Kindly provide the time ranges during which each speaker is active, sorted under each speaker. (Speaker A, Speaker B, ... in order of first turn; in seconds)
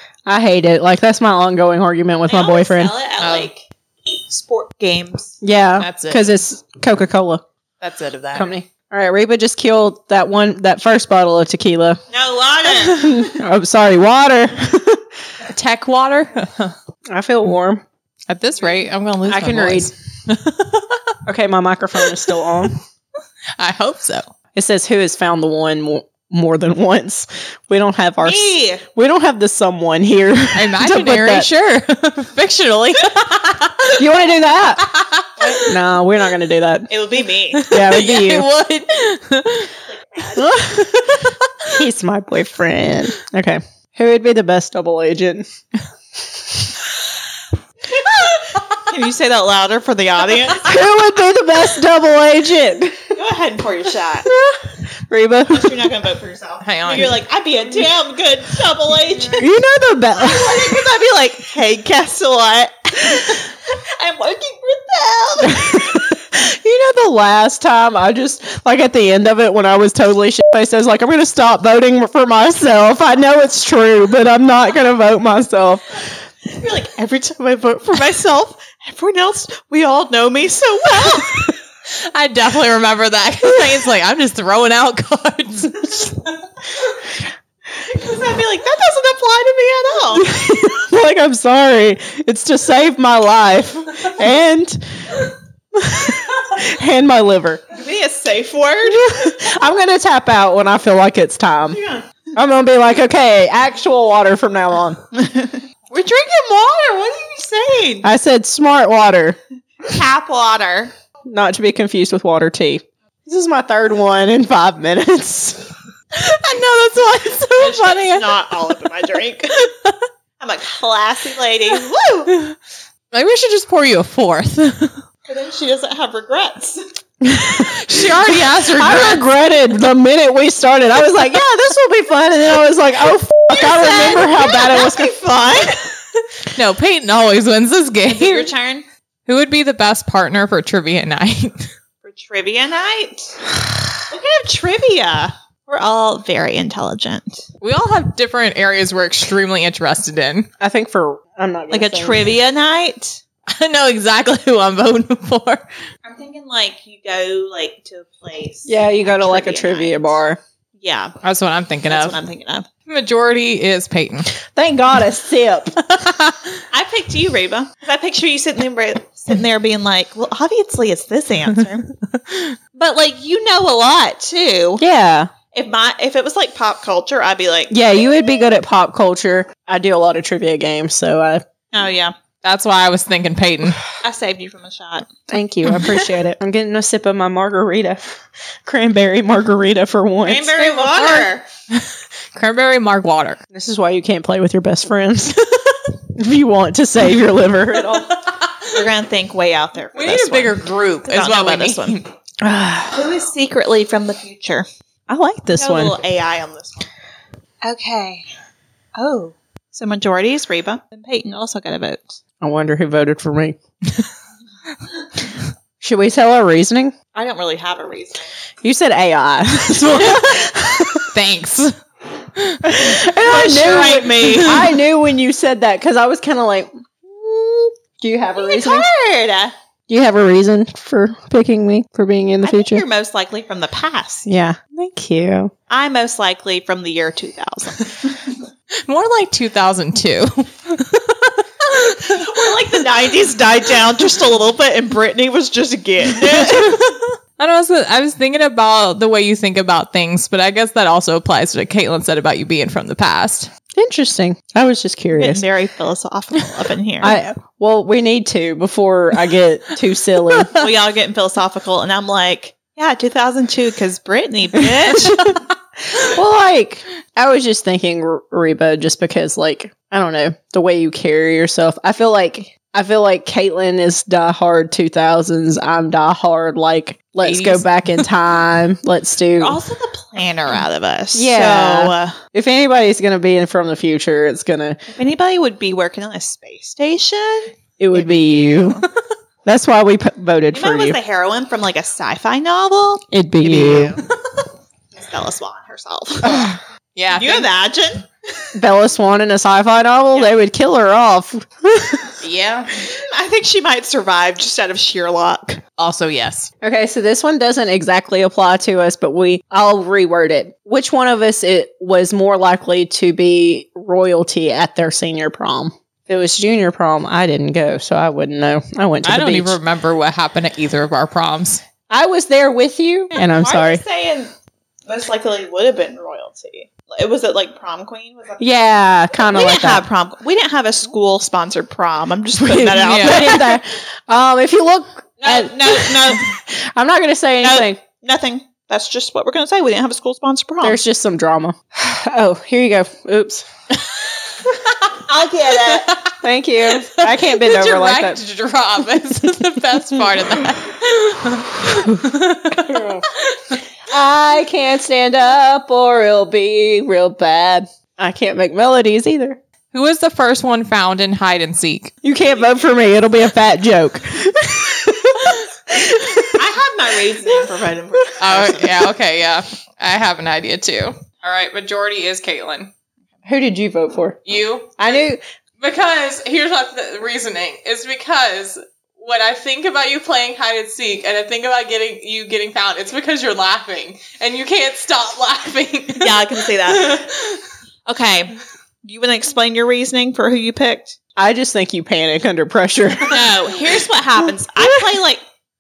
Speaker A: 0.3-2.9, 5.4-7.4, 8.3-12.0, 12.7-15.0, 17.1-17.8, 19.3-19.9, 21.3-22.8, 24.5-31.5, 34.0-34.9, 35.5-36.9, 37.7-38.5, 40.4-45.5, 50.5-53.1, 54.3-56.0, 59.4-60.8, 65.5-76.0, 90.1-97.7, 98.9-101.8, 102.4-105.0, 108.0-109.4, 111.2-115.7, 127.2-128.1, 128.7-135.2, 150.6-152.3, 158.7-160.4, 164.3-165.8, 174.8-175.3, 177.7-181.4, 185.3-190.9, 193.5-198.1, 202.4-203.2, 205.1-206.0, 212.4-213.6, 215.8-216.9, 218.6-221.1, 222.6-228.9, 229.9-232.8, 234.3-235.5, 253.8-255.4, 257.0-260.6, 264.9-265.3, 265.9-279.6, 281.1-284.8, 287.8-288.8, 289.4-291.0, 293.1-294.0, 296.2-296.6, 298.6-302.2, 306.6-319.6, 321.9-323.8, 328.4-329.9, 332.4-337.8, 340.6-343.5, 346.2-348.2, 352.6-353.1, 353.9-359.4, 362.0-366.4, 373.2-374.2, 374.8-375.2, 391.2-393.4
Speaker B: 2.3-5.4, 12.1-13.4, 28.2-28.9, 36.9-37.6, 39.9-40.6, 48.8-50.9, 53.1-54.3, 55.5-59.5, 60.1-66.0, 76.5-81.5, 87.8-90.3, 97.7-99.5, 101.7-102.1, 105.1-108.1, 109.8-110.9, 117.6-119.8, 120.4-122.4, 125.3-126.8, 133.5-136.0, 138.1-138.8, 142.0-143.4, 144.1-147.4, 151.7-153.2, 156.1-160.2, 160.8-161.2, 161.9-162.7, 166.7-171.9, 172.8-174.8, 175.5-177.7, 181.7-182.1, 184.0-185.1, 190.2-191.4, 198.7-202.0, 202.9-204.7, 205.6-206.9, 207.6-208.3, 209.0-212.2, 217.2-218.3, 223.2-224.6, 228.4-229.5, 232.4-234.3, 235.7-238.3, 241.8-246.8, 255.2-257.1, 260.6-265.4, 279.4-282.2, 284.9-288.9, 290.5-294.0, 294.9-296.5, 297.1-298.1, 302.8-305.6, 323.3-324.3, 324.9-328.5, 329.2-333.5, 335.2-336.3, 337.4-340.8, 345.0-346.0, 362.4-362.9, 366.3-368.9, 386.0-387.1, 387.9-391.0, 393.1-395.2
Speaker C: 3.2-3.5, 5.8-6.3, 7.8-8.5, 15.5-16.8, 18.3-21.1, 22.0-22.3, 23.6-24.3, 30.6-34.0, 34.9-35.7, 37.5-39.7, 40.8-41.8, 56.6-57.2, 82.0-86.2, 116.1-118.5, 123.1-125.0, 127.6-129.2, 136.5-138.5, 139.3-141.7, 147.6-150.5, 153.5-155.6, 161.2-162.2, 162.9-164.3, 165.8-166.5, 182.4-183.8, 190.9-193.4, 198.2-198.7, 199.9-202.0, 221.1-221.8, 222.4-222.6, 224.3-224.6, 238.9-242.2, 246.3-253.5, 260.3-260.6, 277.2-278.1, 296.3-297.5, 302.2-302.7, 305.8-306.5, 319.0-321.6, 332.8-333.5, 343.9-344.6, 345.7-353.6, 359.7-362.0, 368.2-372.7, 374.3-374.9, 375.6-387.4